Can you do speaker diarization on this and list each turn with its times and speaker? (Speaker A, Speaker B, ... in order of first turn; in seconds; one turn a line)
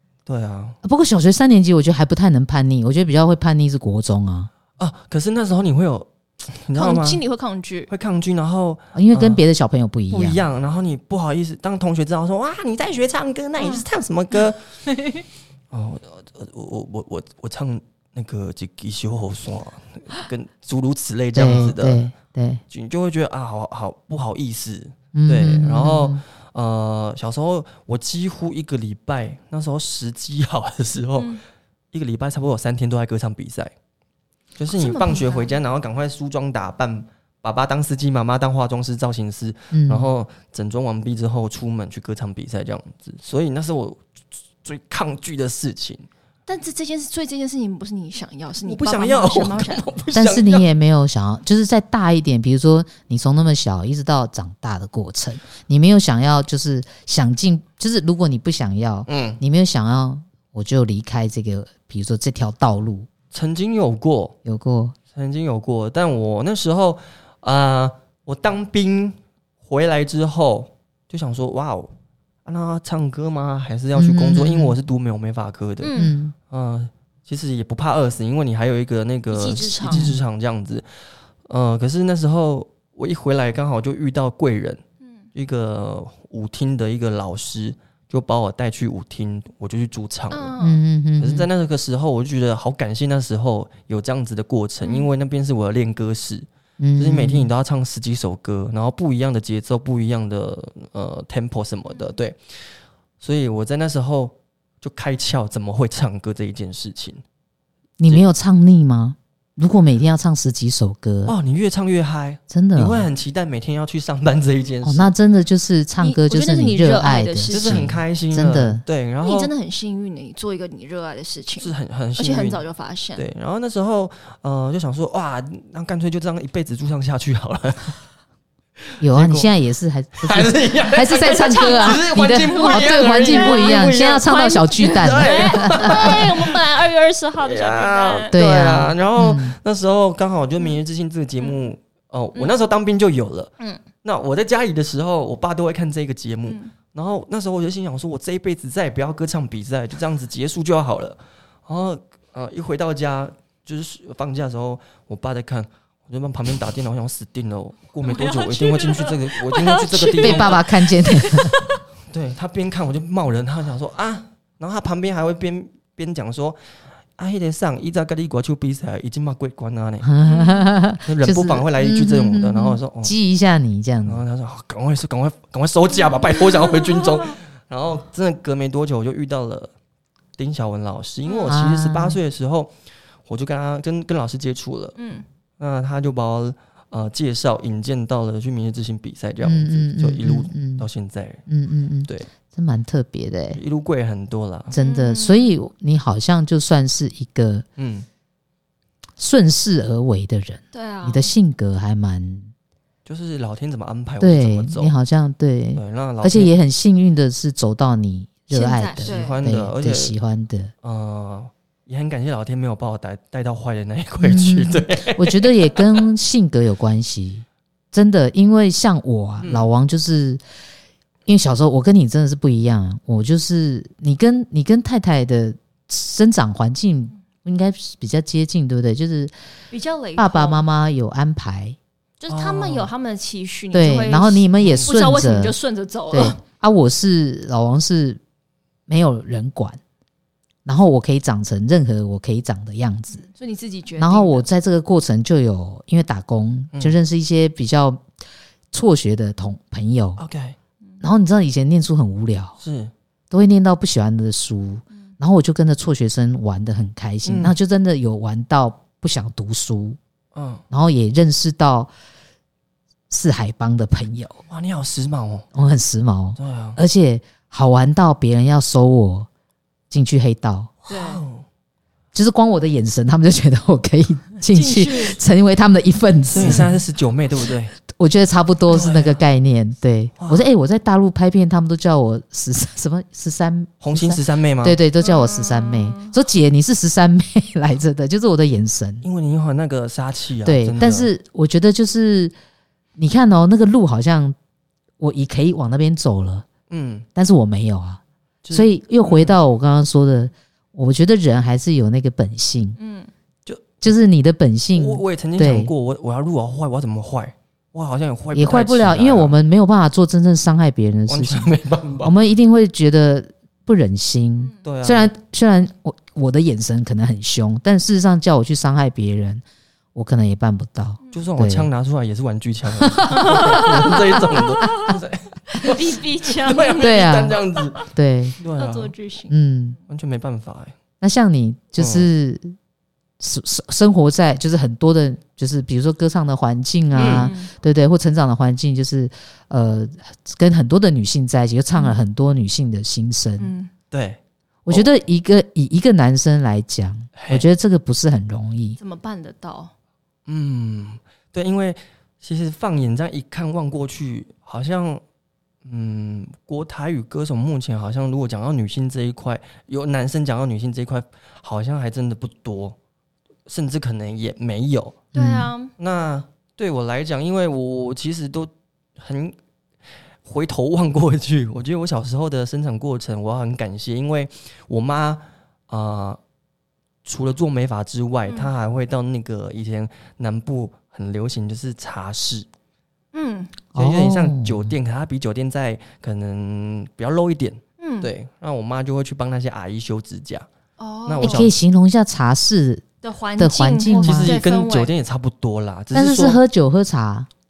Speaker A: 0.2-0.8
Speaker B: 0.8-4.5
Speaker A: 4.8-7.2
Speaker C: 6.8-7.9
Speaker A: 7.9-9.4
Speaker B: 8.9-10.4
Speaker A: 10.1-14.7
Speaker C: 13.6-13.8
Speaker C: 14.9-15.2
Speaker A: 15.7-22.1
Speaker B: 21.3-22.6
Speaker A: 22.7-31.4
Speaker B: 25.1-26.2
Speaker A: 31.9-33.7
Speaker A: 34.5-44.0
Speaker C: 34.7-35.5
Speaker B: 39.7-40.1
Speaker A: 44.6-46.1
Speaker C: 46.5-49.9
Speaker A: 48.6-50.7
Speaker B: 50.1-63.1
Speaker A: 59.1-59.4
Speaker A: 63.3-64.3
Speaker B: 64.4-65.0
Speaker A: 65.1-71.9
Speaker A: 72.4-75.9
Speaker B: 74.0-74.8
Speaker C: 75.8-76.1
Speaker B: 75.9-76.3
Speaker A: 76.5-80.8
Speaker C: 79.3-80.1
Speaker B: 79.8-80.2
Speaker A: 81.4-84.8
Speaker A: 85.3-90.5
Speaker C: 90.3-90.8
Speaker B: 90.6-91.5
Speaker A: 91.2-96.5
Speaker C: 94.8-95.1
Speaker B: 96.8-97.5
Speaker A: 97.0-107.2
Speaker B: 108.0-111.3
Speaker A: 111.2-115.1
Speaker B: 112.5-113.1
Speaker B: 114.8-118.8
Speaker C: 116.0-117.9
Speaker A: 117.5-119.5
Speaker C: 119.2-123.2
Speaker A: 121.6-122.6
Speaker A: 123.2-128.0
Speaker A: 129.0-129.5
Speaker B: 129.0-136.2
Speaker A: 130.2-134.3
Speaker C: 131.1-138.3
Speaker A: 134.8-136.6
Speaker A: 137.4-143.5
Speaker B: 138.3-139.6
Speaker A: 144.0-160.6
Speaker C: 146.5-146.7
Speaker C: 158.0-161.8
Speaker B: 160.2-161.5
Speaker A: 162.1-166.6
Speaker A: 167.2-170.1
Speaker B: 170.0-174.2
Speaker C: 170.2-170.7
Speaker A: 171.0-173.2
Speaker A: 174.0-179.7
Speaker A: 180.4-182.7
Speaker C: 181.2-181.6
Speaker B: 181.5-182.2
Speaker A: 183.2-184.9
Speaker C: 185.0-185.2
Speaker A: 185.6-191.4
Speaker B: 189.4-190.8
Speaker B: 191.5-193.6
Speaker A: 193.5-194.7
Speaker B: 194.7-197.6
Speaker C: 194.8-195.5
Speaker A: 197.8-198.1
Speaker B: 199.2-202.5
Speaker C: 200.7-201.3
Speaker A: 203.1-204.9
Speaker B: 204.2-210.7
Speaker A: 205.7-206.5
Speaker C: 208.5-209.4
Speaker A: 209.0-210.2
Speaker A: 210.8-215.8
Speaker B: 214.2-220.4
Speaker A: 219.4-219.7
Speaker B: 221.2-229.3
Speaker C: 229.7-230.6
Speaker B: 230.2-231.8
Speaker C: 232.2-236.4
Speaker A: 232.3-232.9
Speaker B: 233.7-235.6
Speaker A: 234.6-234.9
Speaker B: 236.1-238.2
Speaker B: 238.9-239.8
Speaker B: 240.6-243.2
Speaker C: 243.2-244.5
Speaker B: 244.0-248.0
Speaker B: 248.7-250.2
Speaker A: 250.2-250.6
Speaker B: 251.0-252.6
Speaker A: 252.6-252.9
Speaker B: 253.3-260.0
Speaker A: 257.2-257.5
Speaker A: 260.3-260.6
Speaker B: 260.7-261.9
Speaker B: 263.1-264.4
Speaker A: 264.5-265.5
Speaker B: 265.5-269.3
Speaker A: 266.4-266.8
Speaker B: 269.9-270.7
Speaker A: 270.9-271.4
Speaker C: 270.9-271.2
Speaker B: 272.1-276.7
Speaker C: 274.5-275.2
Speaker A: 276.3-277.7
Speaker B: 277.9-289.0
Speaker A: 278.7-279.2
Speaker A: 280.2-280.5
Speaker A: 283.8-284.8
Speaker C: 285.0-286.1
Speaker A: 289.0-291.1
Speaker B: 290.4-292.3
Speaker B: 293.0-294.4
Speaker B: 295.0-296.4
Speaker A: 296.7-297.1
Speaker B: 297.1-298.0
Speaker A: 298.4-299.4
Speaker B: 298.5-302.8
Speaker C: 302.8-303.1
Speaker B: 303.8-305.7
Speaker A: 304.7-309.4
Speaker B: 308.3-319.4
Speaker A: 311.1-312.1
Speaker A: 314.6-315.1
Speaker B: 319.9-321.7
Speaker A: 321.1-327.8
Speaker B: 322.8-324.9
Speaker C: 323.1-324.9
Speaker C: 325.5-327.8
Speaker B: 326.8-328.4
Speaker A: 328.4-328.9
Speaker C: 328.5-329.3
Speaker B: 329.3-329.8
Speaker A: 329.9-330.7
Speaker B: 331.0-332.5
Speaker A: 331.8-332.1
Speaker B: 333.2-343.5
Speaker C: 336.9-337.5
Speaker A: 336.9-337.3
Speaker C: 341.7-342.0
Speaker C: 343.4-343.7
Speaker A: 343.9-344.9
Speaker B: 344.6-348.8
Speaker A: 347.1-347.5
Speaker C: 348.8-349.7
Speaker A: 350.3-355.0
Speaker A: 355.6-362.8
Speaker A: 363.5-365.1
Speaker C: 365.1-365.7
Speaker B: 365.1-365.5
Speaker A: 365.8-369.4
Speaker A: 370.2-376.2
Speaker A: 377.0-382.5
Speaker C: 383.1-383.6
Speaker B: 383.7-384.7
Speaker A: 383.7-390.5
Speaker C: 387.8-388.1
Speaker C: 390.8-391.5
Speaker A: 391.0-391.5
Speaker B: 391.2-392.9
Speaker C: 393.0-394.9
Speaker B: 393.4-394.4
Speaker A: 394.0-396.4
Speaker B: 395.9-397.3